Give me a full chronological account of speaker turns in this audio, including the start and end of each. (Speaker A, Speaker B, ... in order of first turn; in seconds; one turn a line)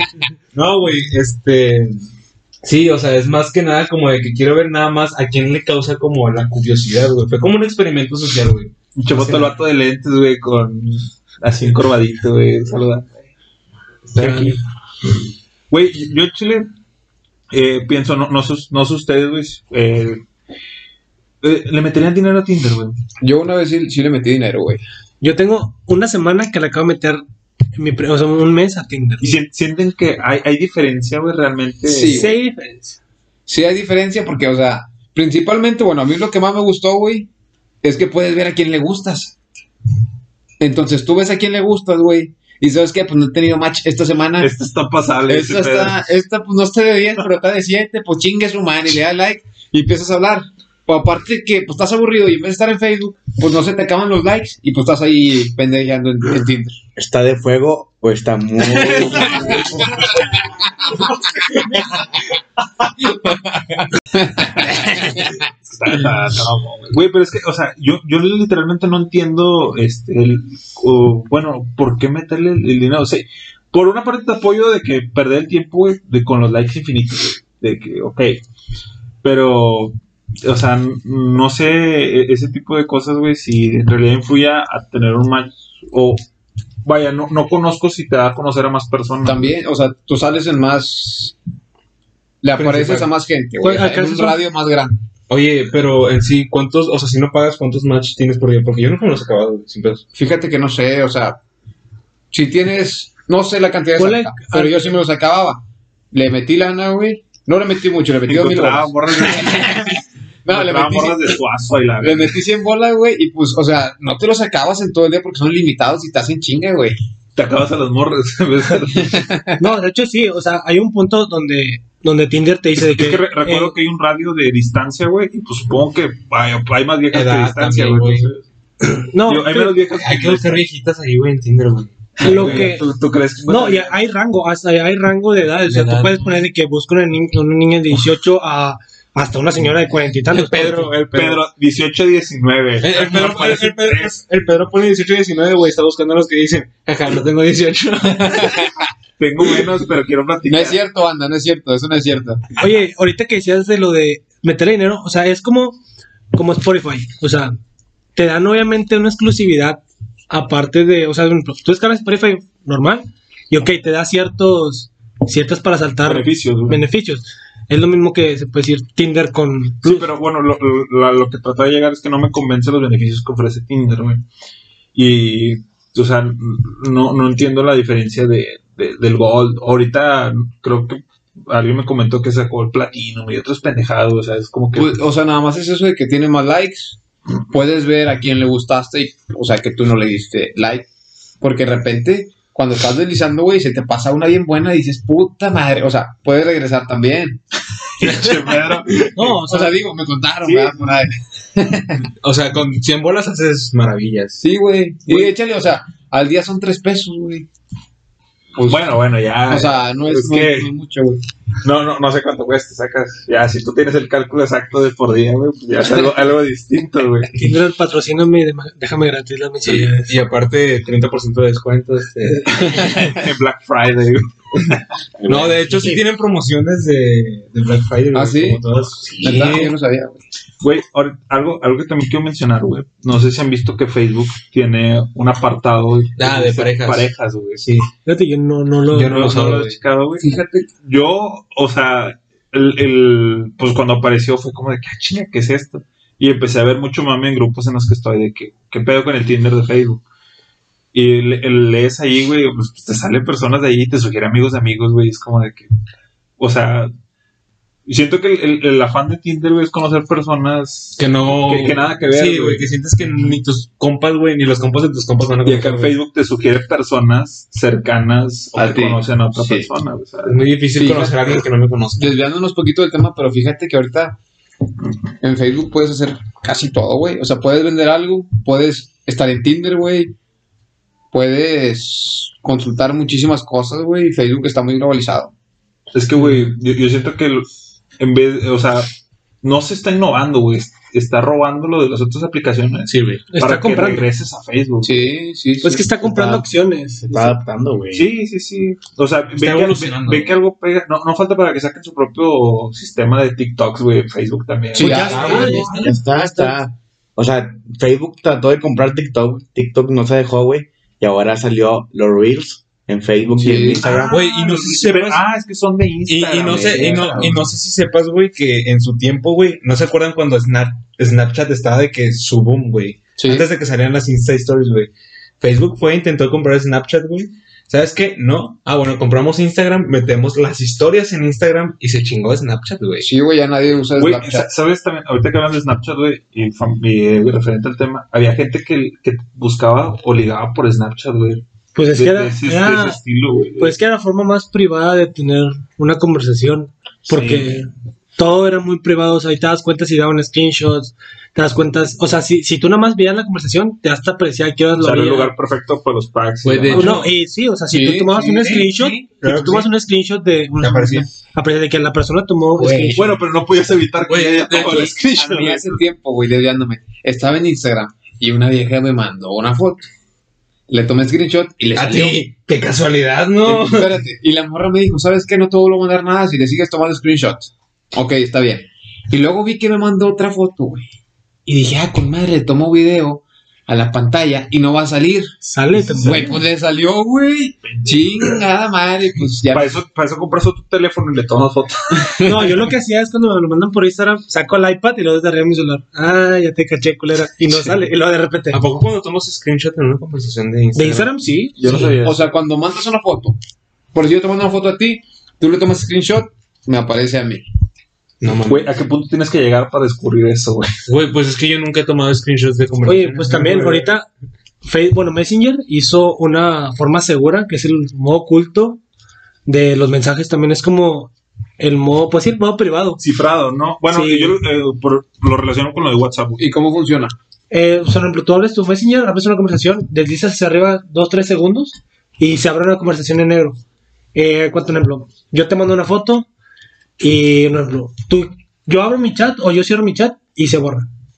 Speaker A: 0.5-2.0
Speaker A: 2.6-9.6
Speaker B: 8.9-13.1
Speaker A: 14.1-14.6
Speaker B: 14.1-14.6
Speaker B: 15.7-16.7
Speaker B: 17.5-20.2
Speaker B: 21.4-23.0
Speaker C: 23.2-24.8
Speaker D: 25.2-27.2
Speaker D: 27.7-29.3
Speaker B: 29.2-32.3
Speaker C: 31.8-32.3
Speaker D: 32.0-33.0
Speaker C: 33.5-37.3
Speaker C: 37.8-39.3
Speaker C: 40.6-44.5
Speaker B: 44.4-46.0
Speaker C: 45.3-56.8
Speaker E: 57.0-60.0
Speaker C: 59.2-60.0
Speaker C: 63.0-65.3
Speaker B: 64.9-78.4
Speaker B: 79.2-86.2
Speaker B: 86.8-89.5
Speaker C: 89.2-91.3
Speaker C: 92.4-95.0
Speaker A: 92.5-93.1
Speaker D: 93.6-94.4
Speaker A: 95.3-100.0
Speaker C: 100.1-101.4
Speaker C: 102.3-111.4
Speaker D: 104.0-105.0
Speaker B: 108.3-109.9
Speaker B: 110.5-112.4
Speaker C: 112.0-117.0
Speaker B: 117.3-119.2
Speaker C: 118.9-119.6
Speaker D: 119.6-123.7
Speaker B: 122.8-128.4
Speaker A: 127.1-128.3
Speaker D: 129.1-129.7
Speaker B: 129.2-130.6
Speaker A: 129.8-132.7
Speaker B: 132.2-133.9
Speaker D: 132.2-132.9
Speaker D: 133.5-140.9
Speaker A: 135.6-136.3
Speaker A: 140.3-141.4
Speaker B: 141.1-144.2
Speaker A: 142.8-148.7
Speaker B: 149.2-150.8
Speaker C: 150.4-152.5
Speaker D: 152.6-155.8
Speaker D: 156.3-157.5
Speaker D: 158.2-170.1
Speaker B: 166.0-166.8
Speaker B: 169.8-174.2
Speaker B: 174.9-184.9
Speaker C: 184.7-187.0
Speaker C: 187.5-190.9
Speaker C: 191.4-197.4
Speaker B: 198.0-199.4
Speaker D: 199.2-199.8
Speaker C: 199.3-202.0
Speaker B: 200.4-200.8
Speaker A: 202.2-204.4
Speaker C: 204.4-207.5
Speaker C: 208.5-208.8
Speaker B: 208.6-210.7
Speaker C: 209.5-211.2
Speaker B: 211.6-217.3
Speaker D: 217.3-220.1
Speaker A: 219.6-223.1
Speaker B: 222.5-224.8
Speaker E: 225.2-225.9
Speaker A: 225.2-229.8
Speaker C: 228.1-228.6
Speaker C: 229.2-230.2
Speaker B: 230.6-237.7
Speaker A: 236.2-237.9
Speaker D: 238.0-239.3
Speaker A: 238.9-239.8
Speaker B: 239.0-250.0
Speaker B: 250.9-255.7
Speaker B: 256.4-256.9
Speaker B: 257.9-262.7
Speaker A: 261.0-265.9
Speaker B: 265.4-270.4
Speaker C: 268.5-269.7
Speaker A: 270.2-272.1
Speaker C: 270.7-271.3
Speaker C: 271.9-274.2
Speaker C: 275.2-280.1
Speaker C: 281.1-285.3
Speaker B: 285.9-288.9
Speaker B: 289.4-295.1
Speaker A: 292.9-293.3
Speaker D: 293.3-294.1
Speaker C: 294.8-295.9
Speaker D: 295.6-297.4
Speaker E: 296.0-296.4
Speaker E: 297.0-298.1
Speaker B: 297.9-305.7
Speaker A: 299.3-300.3
Speaker C: 304.8-305.7
Speaker D: 304.8-306.6
Speaker A: 304.8-305.8
Speaker E: 305.5-314.2
Speaker C: 313.3-313.8
Speaker B: 313.8-317.5
Speaker A: 314.0-315.2
Speaker A: 316.1-333.1
Speaker C: 323.2-323.5
Speaker C: 333.0-334.5
Speaker B: 333.9-343.8
Speaker D: 341.7-343.0
Speaker D: 343.6-355.3
Speaker B: 347.1-347.6
Speaker B: 354.8-357.1
Speaker A: 356.4-357.1
Speaker D: 356.7-363.1
Speaker C: 357.7-359.0
Speaker A: 358.4-359.7
Speaker A: 360.6-361.1
Speaker A: 362.6-363.1
Speaker B: 362.9-365.8
Speaker A: 364.0-365.0
Speaker C: 365.1-369.9
Speaker C: 370.7-372.2
Speaker A: 371.7-374.0
Speaker C: 373.4-380.9
Speaker C: 381.4-385.3
Speaker D: 385.4-386.4
Speaker A: 385.6-386.2
Speaker C: 385.9-389.7
Speaker B: 387.6-388.4
Speaker B: 389.5-392.4
Speaker D: 392.2-398.6
Speaker A: 398.5-401.9
Speaker D: 400.7-401.8
Speaker B: 401.6-402.2
Speaker C: 402.0-403.4
Speaker C: 403.9-407.4
Speaker A: 408.2-408.7
Speaker B: 408.4-410.8
Speaker A: 410.9-413.9
Speaker D: 412.8-414.1
Speaker D: 414.6-418.8
Speaker D: 419.4-423.0
Speaker B: 423.0-426.4
Speaker D: 423.9-424.4
Speaker C: 426.4-427.1
Speaker D: 427.5-433.6
Speaker D: 434.1-436.3
Speaker D: 437.0-440.9